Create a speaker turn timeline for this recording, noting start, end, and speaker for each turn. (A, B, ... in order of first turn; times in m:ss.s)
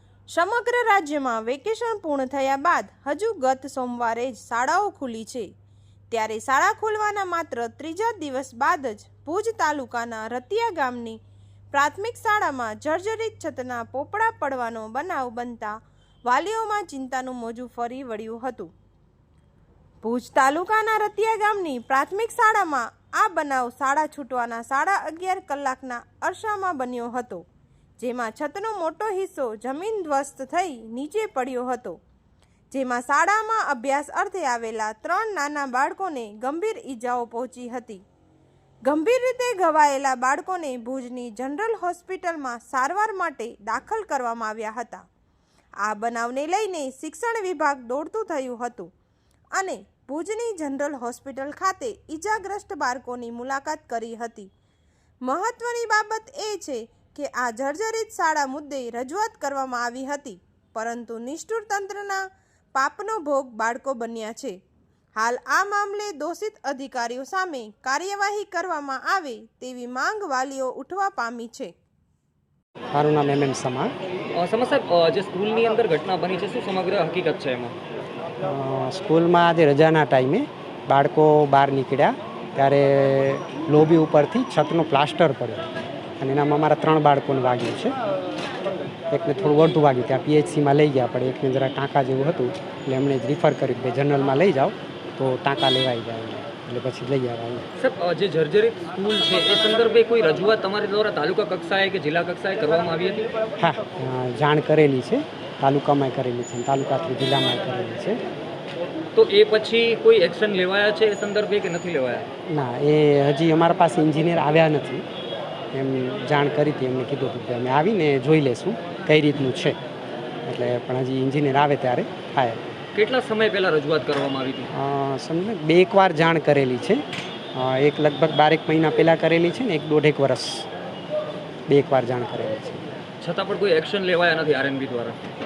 0:00.3-0:05.5 A
0:06.1-0:11.2 A
0:11.7-0:18.7 A
0:20.0-0:27.4 A
0:28.0-0:32.0 A
0:32.7-0:38.0 A
0:38.8-0:45.0 A
0:45.8-0:48.9 A
0:49.6-0:54.5 A
0:55.2-1:02.2 A
1:02.7-1:04.6 A
1:05.2-1:11.7 A
1:12.9-1:13.9 B
1:14.3-1:17.7 C
1:18.4-1:25.7 B
1:26.2-1:27.9 B
1:29.1-1:37.7 B
1:37.8-1:43.2 C
1:43.6-1:48.2 B
1:49.1-1:52.3 C
1:52.5-1:55.0 B
1:55.7-1:59.8 B
2:00.4-2:02.6 B
2:03.0-2:04.7 C
2:04.7-2:07.0 B
2:07.5-2:10.7 B
2:11.7-2:12.8 B
2:13.2-2:15.2 C